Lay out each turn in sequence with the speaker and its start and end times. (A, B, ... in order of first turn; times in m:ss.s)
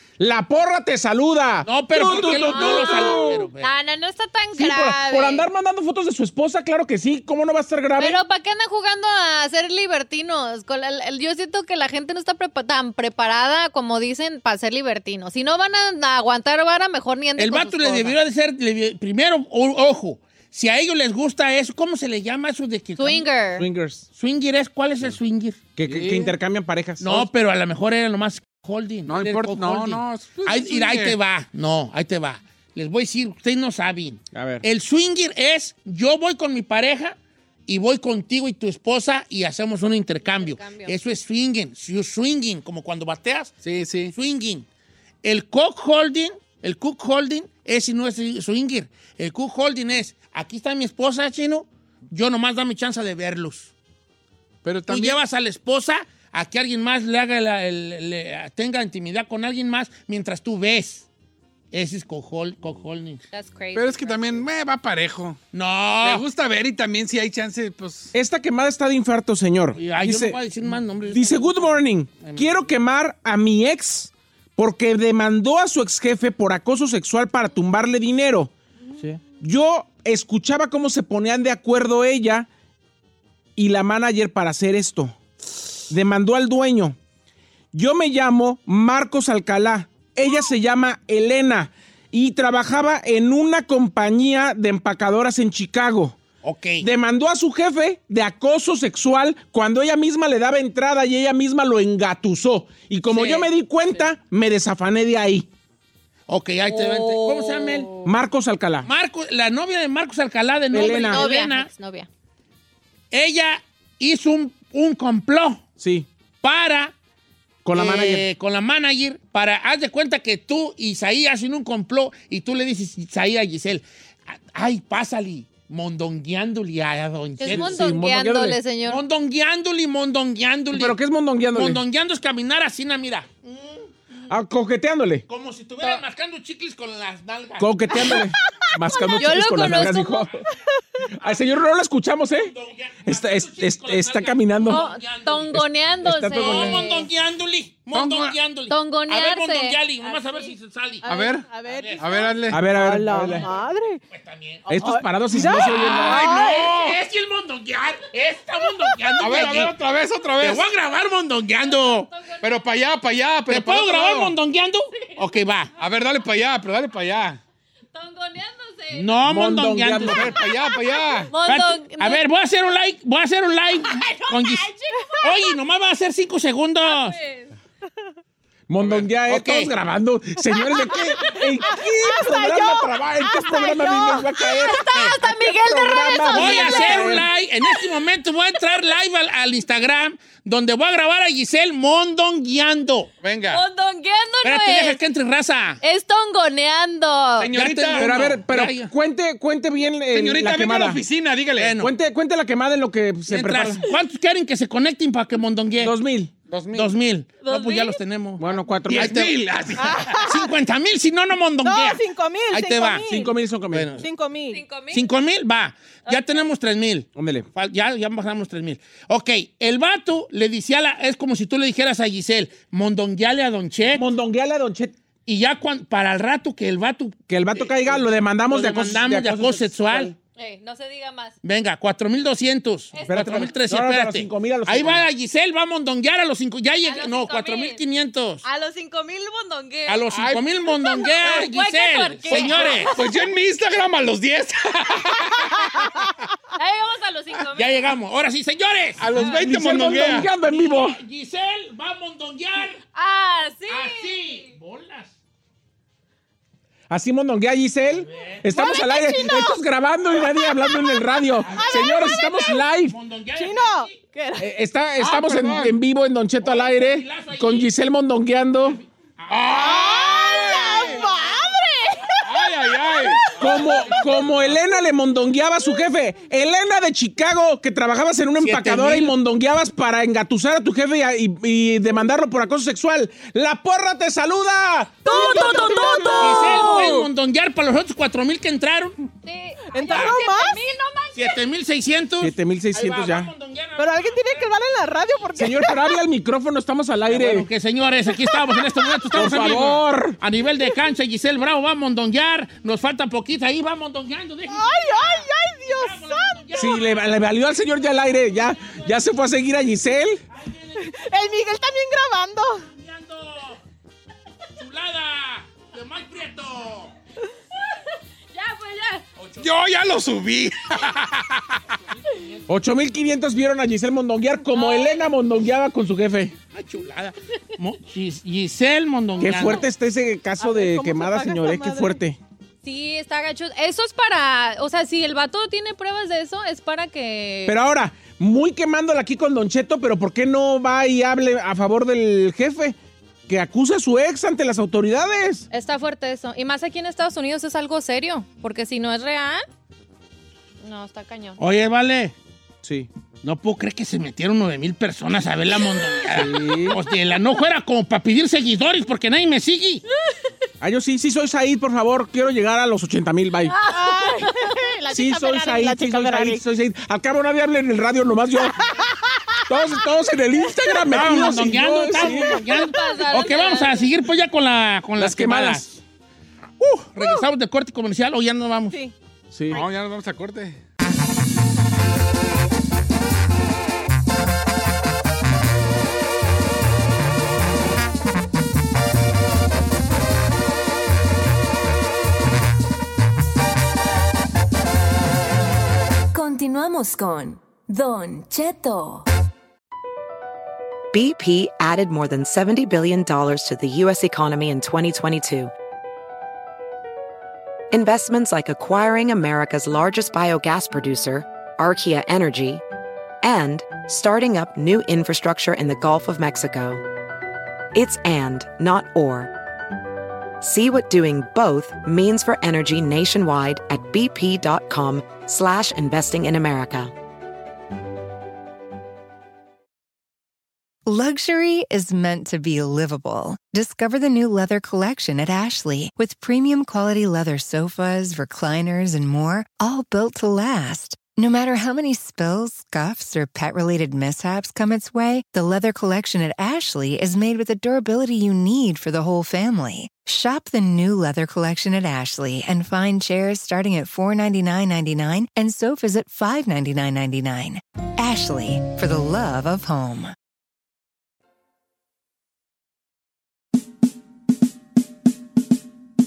0:00.2-0:03.4 A
0:01.6-0:03.7 B
0:02.1-0:05.5 C
0:04.5-0:08.2 A
0:08.0-0:18.2 C
0:17.4-0:23.3 B
0:23.0-0:23.7 C
0:23.5-0:24.0 A
0:24.1-0:25.6 B
0:25.8-0:27.3 A
0:25.8-0:26.3 D
0:27.0-0:43.6 B
0:29.0-0:31.2 D
0:34.3-0:34.6 A
0:40.2-0:40.9 C
0:43.6-0:44.1 D
0:44.1-0:44.6 B
0:45.2-0:53.7 B
0:54.6-0:55.2 D
0:54.9-1:01.1 B
1:01.7-1:03.2 B
1:03.3-1:04.4 C
1:03.7-1:05.4 D
1:05.5-1:06.2 B
1:06.0-1:08.1 D
1:08.1-1:10.4 A
1:09.7-1:12.7 B
1:11.0-1:22.5 A
1:23.6-1:25.2 A
1:25.9-1:27.0 A
1:27.7-1:36.2 A
1:36.4-1:36.9 B
1:36.8-1:45.5 A
1:43.1-1:43.5 B
1:46.3-1:47.9 B
1:46.6-1:48.1 C
1:48.0-1:48.9 A
1:48.8-1:51.7 B
1:50.7-1:51.2 A
1:50.7-1:52.1 C
1:53.1-1:55.6 B
1:55.8-1:56.1 A
1:56.4-1:56.9 B
1:57.6-1:58.2 A
1:57.7-2:07.8 B
2:07.4-2:09.0 C
2:07.5-2:08.6 A
2:08.9-2:11.0 B
2:10.7-2:11.8 A
2:11.5-2:13.9 B
2:14.3-2:15.2 A
2:15.3-2:18.2 B
2:17.6-2:20.4 A
2:19.1-2:20.3 C
2:21.0-2:22.5 A
2:21.2-2:21.4 B
2:22.4-2:25.6 B
2:23.0-2:24.9 A
2:24.7-2:27.1 C
2:26.0-2:26.9 A
2:26.3-2:32.3 B
2:27.9-2:28.4 D
2:28.7-2:30.5 C
2:31.0-2:34.0 E
2:31.0-2:32.7 D
2:32.5-2:33.5 A
2:33.3-2:39.8 B
2:34.7-2:36.2 A
2:34.7-2:36.6 E
2:35.6-2:37.0 D
2:39.2-2:40.7 D
2:40.4-2:42.1 B
2:41.6-2:42.6 C
2:42.4-2:44.4 D
2:43.5-2:45.7 B
2:45.8-2:47.4 D
2:47.9-2:49.2 C
2:48.9-2:50.4 B
2:49.2-2:50.4 A
2:50.0-2:51.3 D
2:50.4-2:52.2 C
2:51.4-2:54.7 B
2:53.8-2:55.6 C
2:55.2-2:57.2 B
2:56.8-2:57.5 C
2:58.7-3:07.3 A
2:58.8-2:59.1 D
2:59.2-2:59.7 B
3:00.6-3:04.2 E
3:01.1-3:01.4 C
3:04.1-3:07.8 C
3:04.8-3:05.2 B
3:06.3-3:13.2 B
3:13.2-3:13.6 D
3:13.5-3:15.0 C
3:14.4-3:15.8 B
3:15.8-3:17.5 C
3:17.4-3:18.4 D
3:17.5-3:18.9 B
3:17.9-3:21.0 A
3:20.1-3:21.8 D
3:21.6-3:21.9 B
3:21.8-3:23.8 A
3:23.3-3:25.9 B
3:25.8-3:26.3 A
3:26.5-3:26.9 D
3:26.7-3:29.4 B
3:27.4-3:28.0 C
3:28.4-3:29.3 A
3:28.9-3:30.2 D
3:29.8-3:30.5 E
3:30.0-3:33.0 B
3:31.6-3:33.4 E
3:33.1-3:33.9 A
3:33.7-3:34.1 B
3:34.0-3:34.6 E
3:34.5-3:35.1 C
3:34.9-3:44.1 B
3:36.1-3:36.4 C
3:37.1-3:37.5 A
3:43.9-3:44.9 A
3:45.2-3:50.1 B
3:47.3-3:50.2 A
3:50.4-3:51.4 C
3:51.4-3:58.4 B
3:52.9-3:53.6 C
3:53.0-3:55.1 A
3:56.8-3:57.8 C
3:58.4-4:00.0 C
3:59.9-4:03.0 B
4:00.1-4:00.4 D
4:00.8-4:03.1 C
4:02.3-4:06.0 D
4:06.6-4:07.9 C
4:07.5-4:12.8 B
4:09.0-4:10.2 D
4:09.0-4:11.0 A
4:12.9-4:14.5 C
4:13.7-4:15.1 B
4:16.9-4:23.0 A
4:17.9-4:18.5 B
4:18.5-4:19.6 E
4:20.2-4:22.4 E
4:21.4-4:24.0 B
4:23.4-4:24.5 E
4:24.4-4:28.8 A
4:25.0-4:25.7 D
4:26.4-4:27.7 B
4:29.2-4:31.6 B
4:29.5-4:33.2 E
4:29.5-4:30.8 D
4:32.2-4:34.1 D
4:33.4-4:47.0 A
4:33.4-4:34.1 B
4:38.4-4:39.1 B
4:45.0-4:46.9 C
4:45.0-4:46.7 E
4:46.1-4:49.1 B
4:49.2-4:51.4 C
4:49.7-4:50.6 E
4:49.9-4:50.2 B
4:51.1-4:54.6 B
4:52.2-4:53.3 A
4:53.8-4:56.0 E
4:55.4-4:57.5 A
4:57.1-5:07.1 B
4:58.3-4:59.0 E
4:59.1-5:00.2 A
5:04.5-5:06.7 E
5:06.5-5:10.2 A
5:08.0-5:09.0 B
5:10.3-5:11.2 B
5:10.8-5:12.7 E
5:12.6-5:13.6 B
5:14.6-5:16.9 B
5:18.3-5:19.0 C
5:19.2-5:19.5 B
5:19.4-5:21.6 D
5:21.9-5:22.5 B
5:22.5-5:26.3 A
5:24.5-5:25.1 C
5:26.5-5:29.6 B
5:29.2-5:32.2 A
5:30.4-5:32.0 E
5:32.6-5:37.6 C
5:37.5-5:42.8 A
5:43.3-5:45.5 A
5:45.5-5:49.4 C
5:50.6-5:51.4 C
5:51.4-5:52.1 B
5:52.6-5:52.9 A
5:53.2-5:59.8 B
5:56.1-5:56.8 A
6:00.6-6:03.6 A
6:03.6-6:04.5 C
6:03.7-6:06.4 E
6:04.9-6:08.6 A
6:08.6-6:09.2 E
6:09.5-6:12.4 A
6:10.9-6:15.8 B
6:12.5-6:13.9 C
6:15.0-6:15.8 A
6:16.7-6:18.8 B
6:19.3-6:19.6 A
6:19.5-6:20.6 D
6:36.1-6:39.1 F
6:40.9-6:45.5 G
6:47.7-6:52.6 G
6:53.2-6:56.8 G
6:57.7-6:59.3 G
7:00.4-7:06.9 G
7:10.9-7:40.1 H